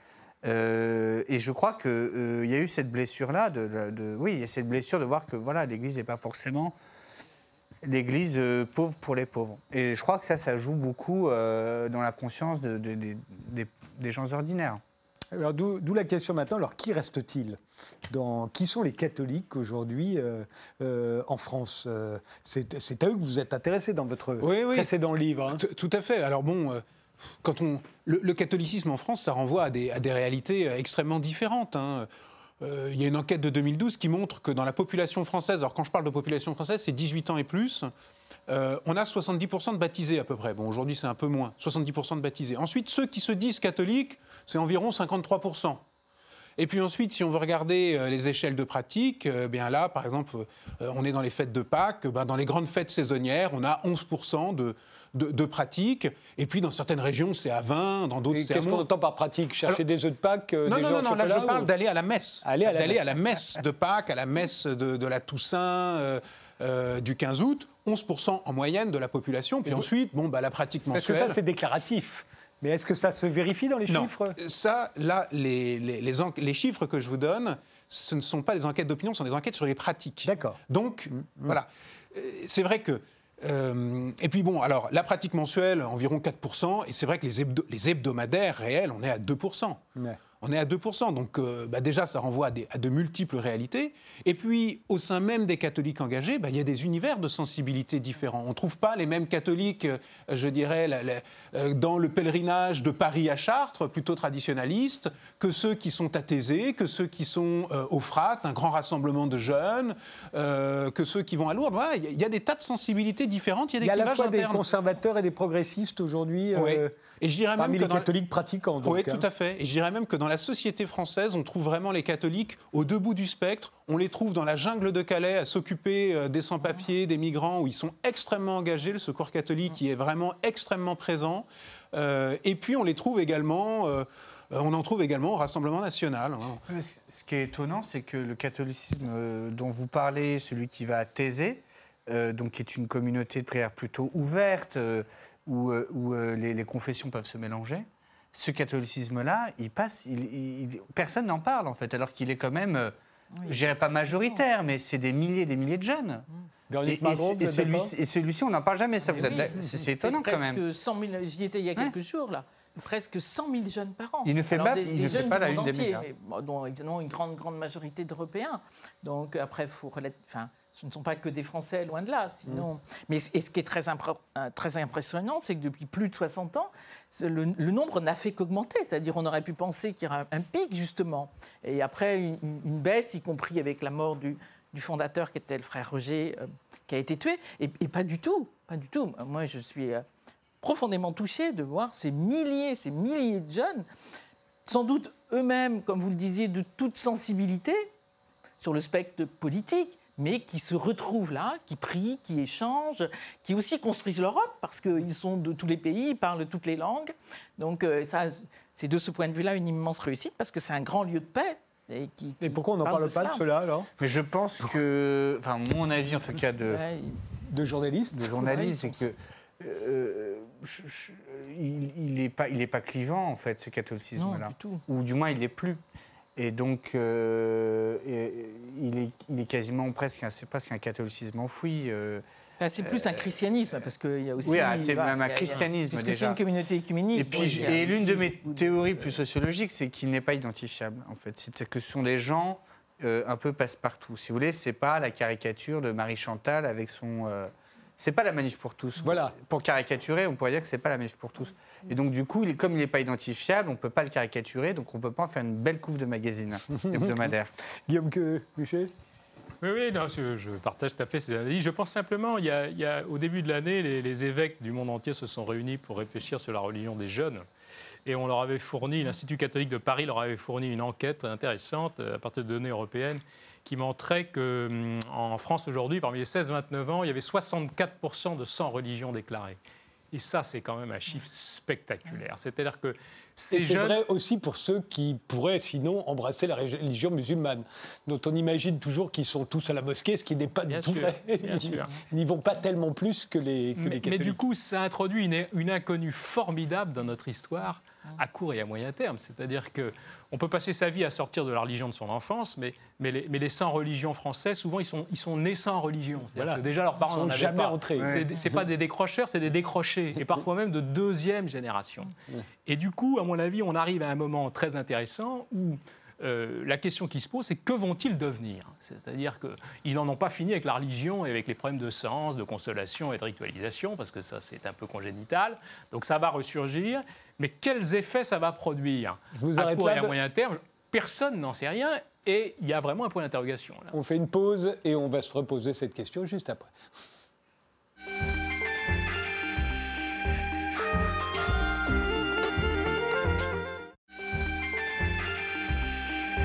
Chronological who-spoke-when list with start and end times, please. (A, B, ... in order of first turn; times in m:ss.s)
0:00.4-0:06.7 A
0:07.8-0:14.8 A
0:15.3-0:17.6 B
0:18.1-0:25.6 B
0:24.4-0:24.9 C
0:25.5-0:26.8 C
0:27.4-0:32.1 C
0:32.6-0:37.9 C
0:38.5-0:45.8 C
0:46.6-0:58.8 C
0:58.3-1:01.7 B
1:00.6-1:11.4 C
1:02.4-1:03.2 B
1:10.9-1:14.4 B
1:13.9-1:29.8 C
1:20.2-1:20.6 B
1:30.4-1:54.6 C
1:53.8-1:57.0 B
1:56.5-1:58.1 C
1:57.6-1:59.2 B
1:58.8-2:16.6 C
2:16.7-2:32.9 A
2:33.4-2:36.3 A
2:36.7-2:37.9 B
2:36.8-2:40.6 A
2:39.1-3:10.0 D
2:44.2-2:46.0 A
3:10.6-3:13.8 D
3:14.6-3:17.9 D
3:18.6-3:33.4 D
3:32.4-3:33.9 B
3:34.0-3:36.8 A
3:36.7-3:37.2 D
3:37.5-3:38.7 B
3:38.1-3:45.8 A
3:38.4-3:39.0 D
3:44.2-3:44.8 D
3:46.4-3:52.2 A
3:52.6-3:58.7 D
3:54.4-3:56.4 A
3:57.1-4:17.5 A
4:09.0-4:09.4 B
4:16.8-4:17.3 B
4:17.9-4:18.9 B
4:19.6-4:27.4 E
4:28.0-4:39.6 E
4:40.1-4:44.0 E
4:43.5-4:54.4 B
4:50.7-4:51.9 E
4:53.8-5:12.1 E
5:06.3-5:08.6 B
5:08.0-5:08.3 A
5:12.7-5:33.9 E
5:29.3-5:30.1 B
5:33.9-5:36.7 B